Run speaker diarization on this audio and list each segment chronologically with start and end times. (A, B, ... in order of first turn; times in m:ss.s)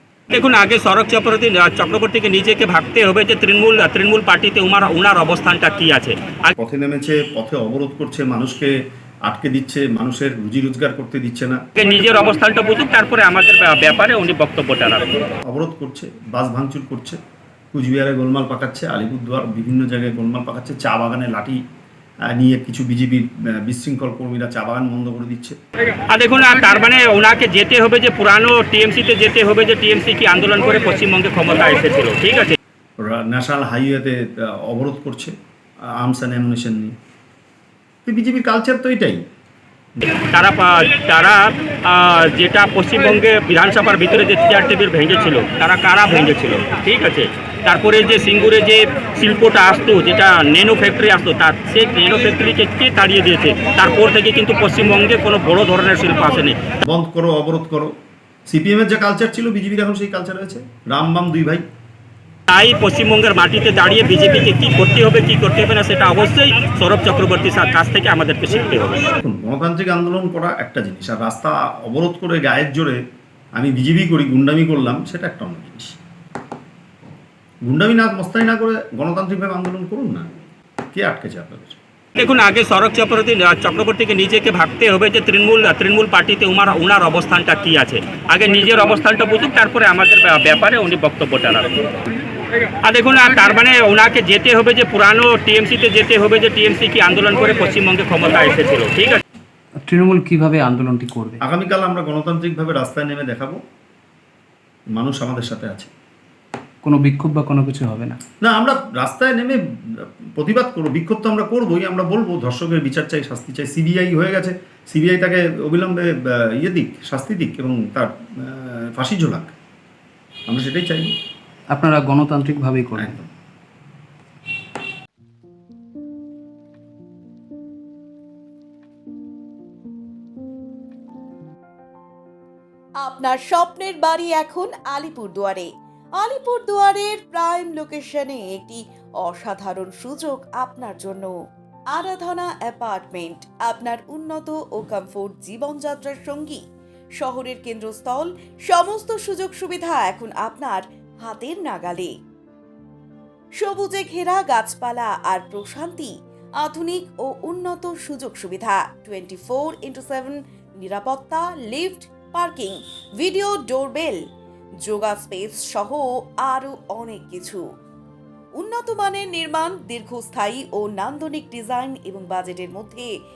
0:00.3-0:06.5 A
0:06.6-0:08.7 B
0:09.3-0:11.6 B
0:11.8-0:15.2 A
0:15.5-0:17.2 B
0:17.7-0:21.6 B
0:22.3-0:25.6 B
0:26.1-0:32.6 A
0:33.0-0:35.3 B
0:36.0-0:36.9 B
0:38.0-0:39.2 B
0:40.1-0:56.6 A
0:56.9-0:57.9 B
0:58.5-1:01.6 B
1:02.5-1:09.1 A
1:09.2-1:13.0 B
1:13.6-1:16.0 B
1:17.6-1:21.8 B
1:22.2-1:31.8 A
1:32.8-1:39.2 A
1:39.8-1:41.4 C
1:41.4-1:43.6 B
1:45.0-1:45.9 B
1:46.8-1:48.2 C
1:48.4-1:59.5 B
2:00.5-2:01.1 B
2:01.7-2:03.3 C
2:13.0-2:21.3 D
2:21.9-2:26.6 D
2:27.2-2:32.1 D
2:33.6-2:44.2 D
2:44.8-2:47.6 D
2:48.6-2:53.1 D